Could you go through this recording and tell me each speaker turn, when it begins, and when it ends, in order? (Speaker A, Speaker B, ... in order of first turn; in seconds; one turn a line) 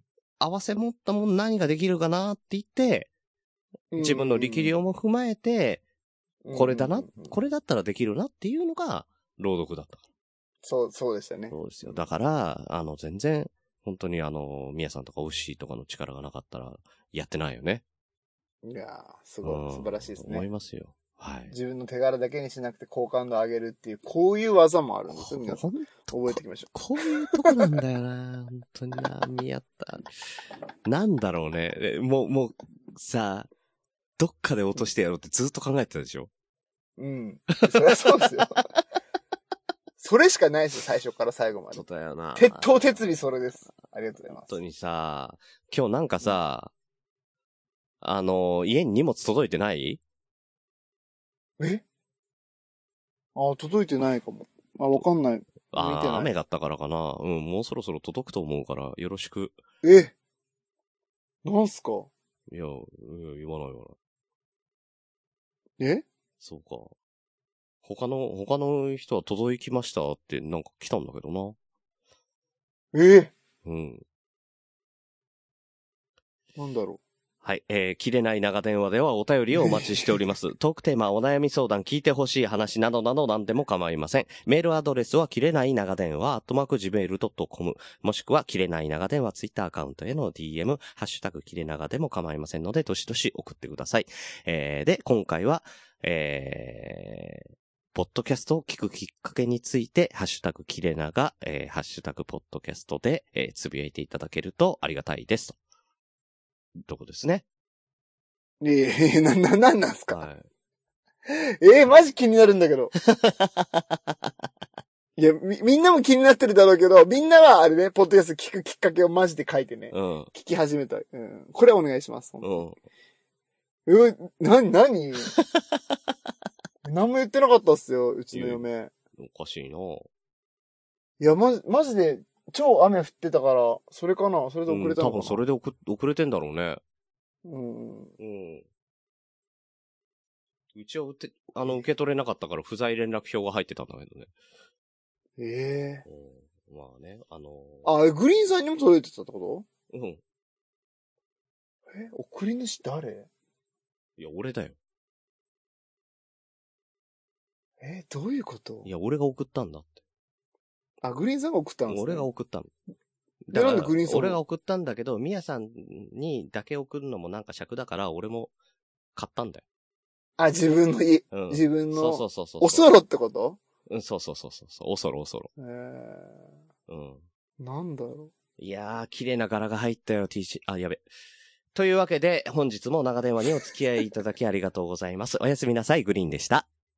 Speaker A: 0.4-3.1
Speaker B: 3.9-4.7
Speaker A: 4.0-5.8
Speaker B: 6.4-7.3
Speaker A: 6.5-10.0
Speaker B: 10.6-12.0
Speaker A: 11.5-17.8
Speaker B: 18.6-20.4
Speaker A: 19.4-21.5
Speaker B: 21.5-27.6
Speaker A: 25.1-30.1
Speaker A: 30.8-33.5
Speaker A: 34.2-36.3
Speaker B: 37.0-38.6
Speaker A: 37.7-38.6
Speaker B: 40.0-41.8
Speaker A: 41.7-43.0
Speaker B: 42.3-44.5
Speaker A: 44.5-46.7
Speaker A: 48.0-50.0
Speaker B: 51.6-51.8
Speaker B: 53.3-56.3
Speaker A: 55.7-59.6
Speaker B: 59.8-60.1
Speaker B: 61.4-62.1
Speaker A: 62.5-64.0
Speaker B: 65.8-66.0
Speaker A: 66.4-66.9
Speaker A: 67.8-71.6
Speaker B: 72.9-73.3
Speaker A: 73.6-74.0
Speaker B: 76.6-77.0
Speaker A: 77.4-105.6
Speaker B: 79.5-80.1
Speaker A: 106.8-107.4
Speaker B: 108.6-110.2
Speaker A: 110.1-110.4
Speaker B: 111.3-112.9
Speaker A: 113.0-114.0
Speaker B: 115.2-122.6
Speaker A: 119.9-120.3
Speaker A: 122.4-122.7
Speaker B: 123.8-125.3
Speaker A: 125.3-125.6
Speaker B: 126.8-128.9
Speaker A: 128.3-128.6
Speaker A: 129.2-130.1
Speaker B: 131.2-135.4
Speaker A: 134.7-136.8
Speaker B: 137.4-138.1
Speaker A: 138.2-138.6
Speaker A: 140.7-144.3
Speaker B: 145.4-146.0
Speaker A: 146.1-147.9
Speaker B: 147.8-149.7
Speaker A: 149.9-150.2
Speaker B: 151.9-153.3
Speaker A: 154.2-154.8
Speaker B: 157.8-158.9
Speaker A: 158.8-160.0
Speaker B: 161.0-162.3
Speaker A: 161.9-162.7
Speaker A: 163.5-168.5
Speaker B: 163.5-164.4
Speaker A: 169.1-169.6
Speaker B: 170.4-173.6
Speaker A: 171.3-172.9
Speaker A: 173.9-175.5
Speaker B: 175.6-176.5
Speaker A: 176.9-177.2
Speaker B: 177.6-178.3
Speaker A: 178.6-181.0
Speaker A: 181.7-186.7